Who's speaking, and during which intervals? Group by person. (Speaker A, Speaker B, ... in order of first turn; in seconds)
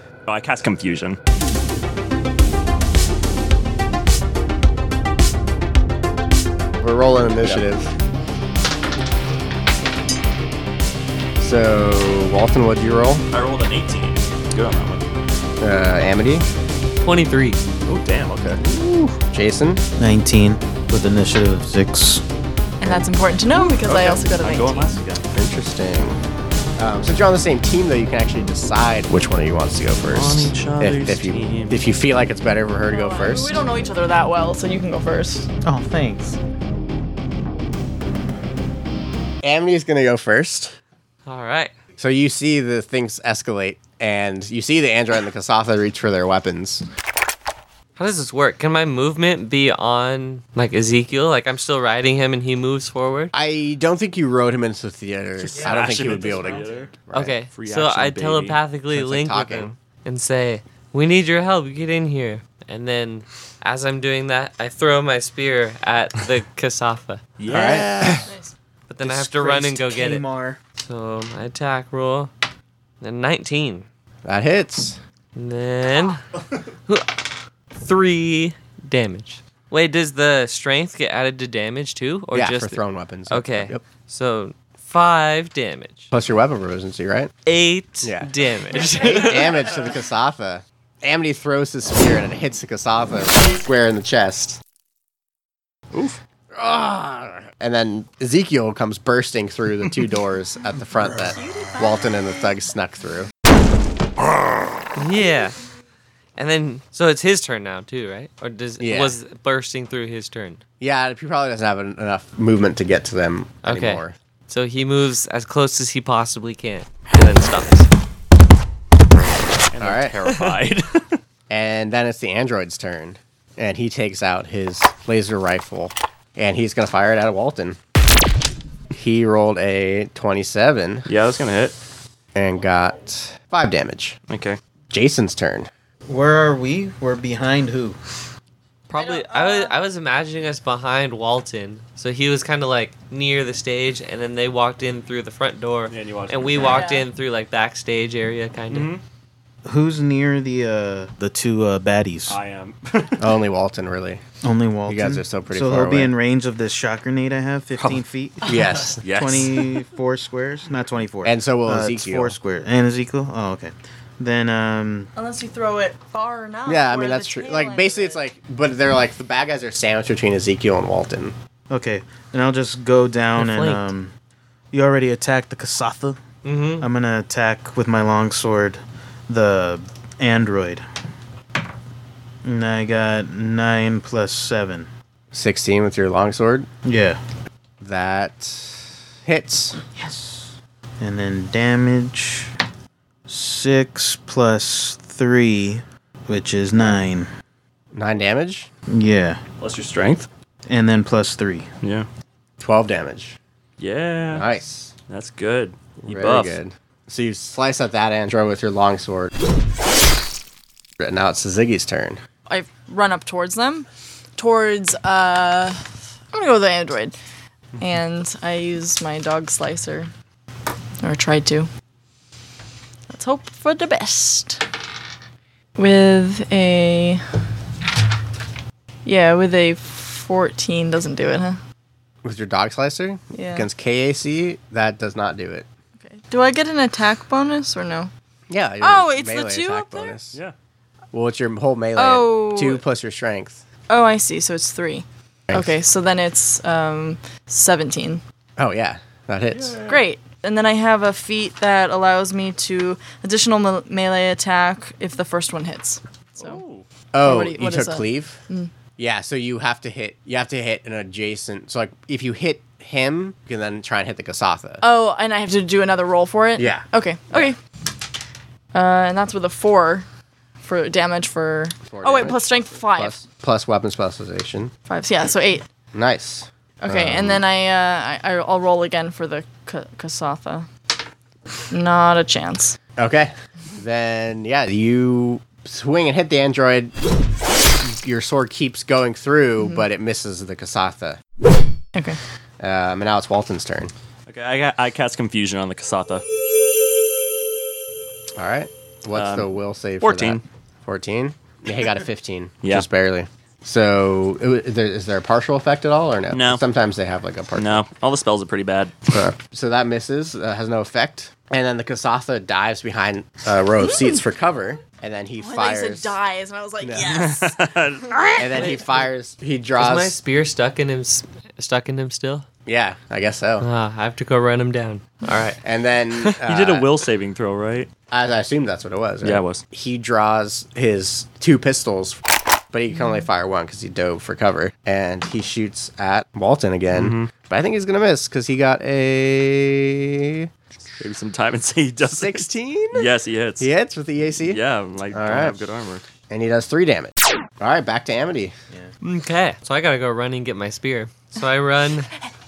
Speaker A: 0.3-1.2, 13.3-15.0, 17.9-19.1, 23.5-25.3, 30.1-31.8, 55.4-56.9, 57.5-58.6, 67.4-68.3, 95.9-96.2, 119.7-121.2, 131.1-131.7, 134.3-134.6, 145.9-146.8, 148.7-149.0, 152.3-153.2, 157.8-158.0, 159.0-159.7, 199.6-200.3, 201.8-202.1, 203.8-204.5, 205.1-206.6, 249.5-250.0, 256.4-256.9, 294.3-296.2, 299.1-300.4, 306.3-306.6, 307.6-309.1, 317.1-318.7, 326.5-327.9, 329.2-329.6, 336.9-337.3, 341.0-343.7, 344.4-346.1
Speaker B: 6.8-7.9, 11.4-13.2, 15.6-16.4, 19.2-19.8, 25.3-26.2, 26.8-33.6, 39.4-40.8, 42.0-46.8, 53.3-57.4, 58.9-59.8, 67.5-68.3, 74.2-75.0, 82.3-83.8, 86.1-87.3, 88.0-88.3, 88.9-94.6, 96.5-103.3, 108.8-109.2, 110.8-114.2, 119.8-120.6, 121.5-127.8, 128.9-131.1, 132.3-134.2, 134.9-135.7, 153.2-154.2, 154.9-156.1, 158.4-159.0, 161.2-162.3, 166.7-171.3, 185.3-186.7, 187.8-189.8, 197.9-198.7, 202.6-203.4, 204.3-204.9, 206.0-209.3, 211.0-212.2, 232.2-235.7, 238.5-240.4, 241.1-243.6, 248.6-249.8, 257.1-258.4, 259.0-264.8, 266.6-267.5, 271.9-274.7, 275.9-277.4, 283.0-286.9, 287.8-291.2, 292.6-293.9, 298.4-307.8, 309.1-316.2, 316.8-317.1, 318.4-320.1, 322.6-323.7, 325.6-326.9, 328.1-332.2, 332.7-340.5, 342.0-343.1, 343.6-344.6, 345.1-345.6, 346.3-348.5
Speaker C: 17.0-17.6, 41.2-41.7, 48.0-53.3, 57.1-67.2, 68.9-70.2, 70.8-72.3, 73.0-73.9, 75.3-76.2, 76.9-86.1, 87.5-89.6, 105.0-105.6, 106.3-110.6, 113.6-117.9, 138.9-148.9, 173.4-173.9, 176.4-176.9, 318.6-319.0, 319.8-322.4, 323.6-325.6, 349.0-352.1
Speaker D: 20.0-22.2, 35.6-36.4, 55.5-56.9, 69.0-70.6, 136.1-138.0, 149.6-152.4, 154.4-165.1, 171.7-174.1, 174.7-176.2, 176.8-180.8, 182.4-184.9, 186.8-187.2, 189.9-192.5, 193.3-197.3, 198.9-199.4, 200.7-201.7
Speaker E: 22.8-24.9, 32.9-35.5, 68.2-68.5, 88.8-89.3, 101.3-102.2, 138.9-139.8, 146.6-147.1, 165.1-168.2, 212.5-217.2, 217.8-220.1, 221.0-221.7, 223.1-224.6, 225.8-227.2, 229.1-231.6, 233.3-233.7, 236.0-238.1, 238.8-240.2, 241.9-242.8, 243.9-248.2, 249.8-256.6, 257.2-258.7, 264.8-267.6, 268.7-270.1, 270.6-273.2, 274.9-275.6, 276.8-280.7, 281.7-282.8, 289.6-289.9, 315.4-317.6